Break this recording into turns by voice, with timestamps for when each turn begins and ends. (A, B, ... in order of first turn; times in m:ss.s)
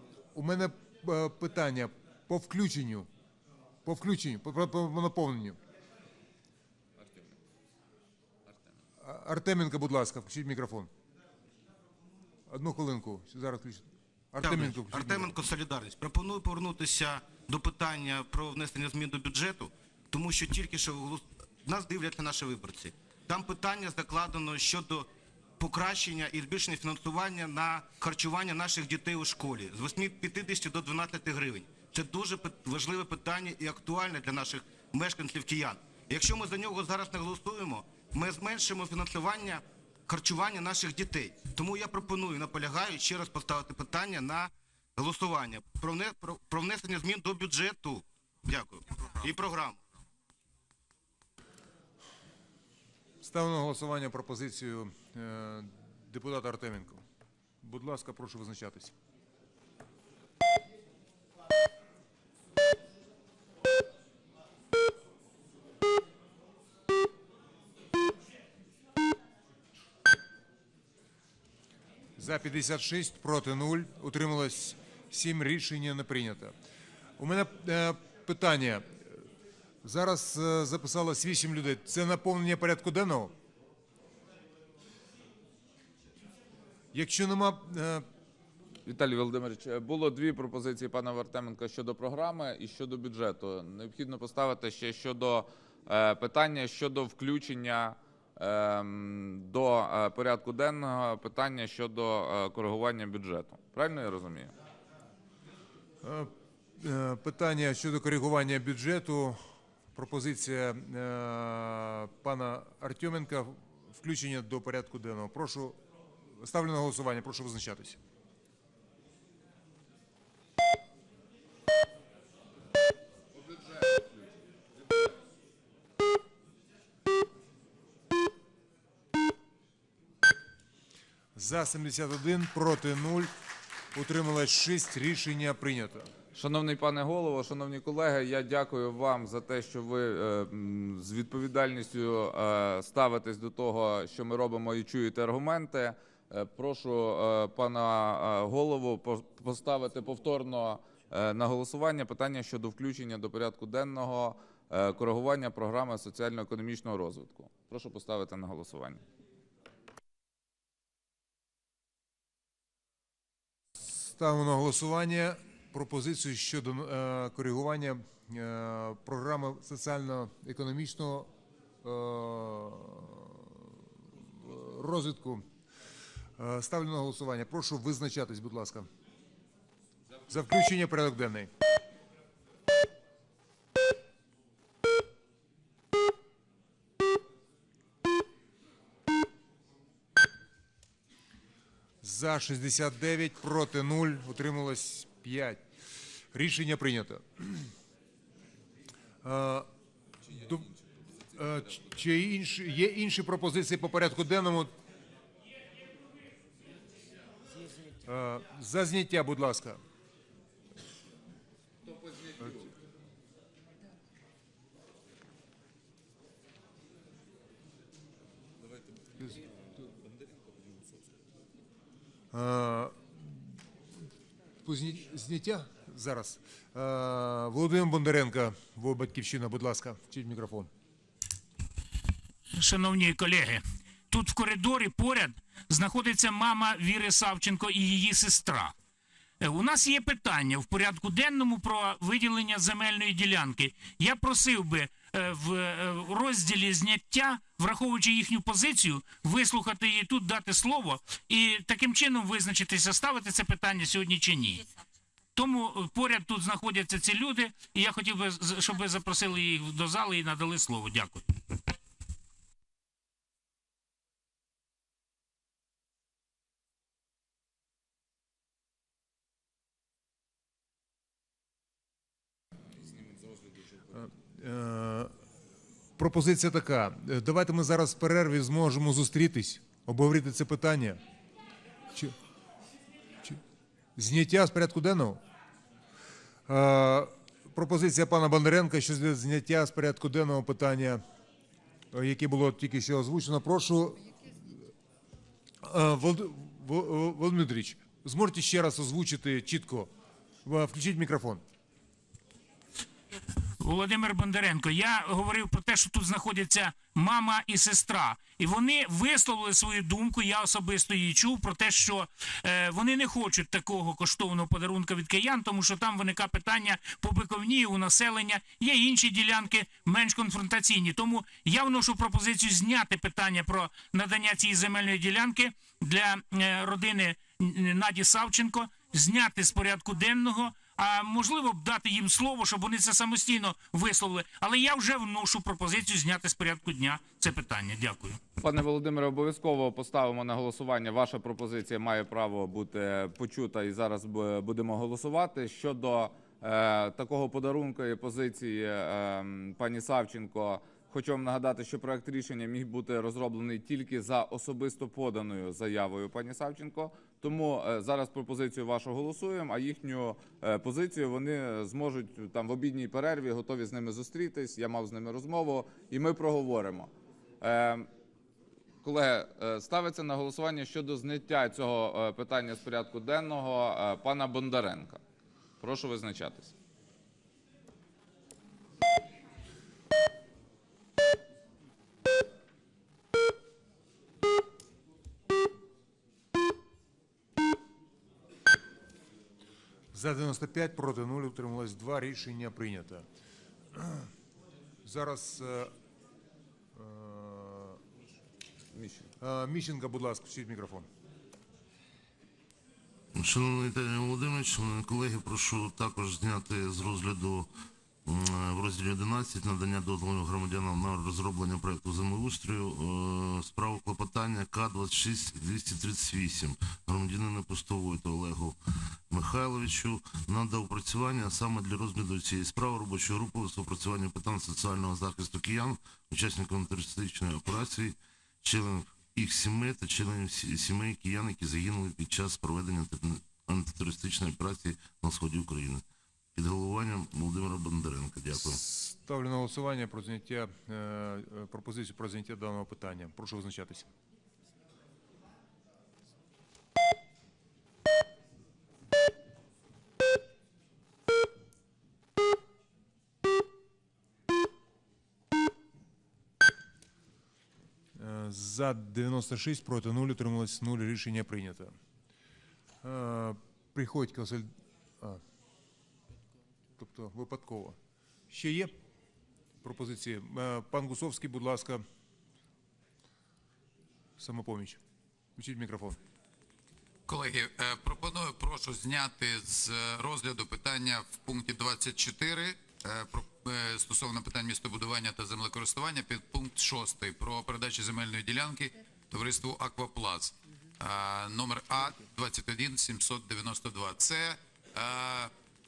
0:00.3-0:03.1 A
0:03.8-0:05.6 A
0:07.0-0:07.3 B
0:09.0-0:10.9 A
0:12.5-0:15.4 A
0:14.4-0:25.1 C
0:25.6-0:49.8 C
0:53.2-0:57.0 A
0:57.6-0:58.9 A
1:12.2-1:16.5 A
1:17.2-1:19.0 A
1:19.8-1:23.3 A
1:26.9-1:28.0 A
1:28.8-1:44.5 B
1:46.0-1:49.4 A
1:49.9-1:55.8 A
1:56.3-1:58.0 A
2:11.3-2:13.3 A
2:13.9-2:16.1 A
2:16.3-2:39.0 B
2:44.0-2:51.3 A
2:51.8-2:55.4 A
2:56.4-2:58.9 A
3:00.2-3:01.5 A
3:12.0-3:15.6 A
3:16.3-3:17.7 A
3:19.2-3:19.7 A
3:20.3-3:20.7 A
3:21.3-3:24.7 A
3:28.0-3:29.8 A
3:42.3-3:43.4 A
3:44.6-3:50.7 A
3:52.6-3:58.7 D
3:59.4-4:14.6 D
4:15.4-4:21.2 D
4:33.9-4:35.1 A
4:36.0-4:41.0 A
4:44.0-4:45.2 A
4:46.5-4:51.0 A
4:51.9-4:54.3 A
4:55.6-4:59.9 A
5:00.4-5:01.4 A
5:03.6-5:38.2 D
5:38.4-6:07.9 B
6:08.8-6:15.0 B
6:15.6-6:16.5 B
6:29.9-6:33.0 A
6:33.7-6:34.1 A
6:34.8-6:35.7 A
6:36.8-6:37.8 A
6:38.7-6:39.1 B
6:39.2-6:40.9 A
6:43.1-6:47.5 E
6:48.0-6:58.6 E
6:59.1-7:15.8 E
7:16.3-7:18.6 E
7:18.4-7:23.9 A
7:38.0-7:41.7 A
7:42.8-7:44.5 A
7:46.8-7:47.8 A
7:48.3-7:48.7 A
7:49.6-7:51.8 A
7:54.2-7:54.8 A
7:55.4-7:56.0 A
7:57.1-8:15.3 F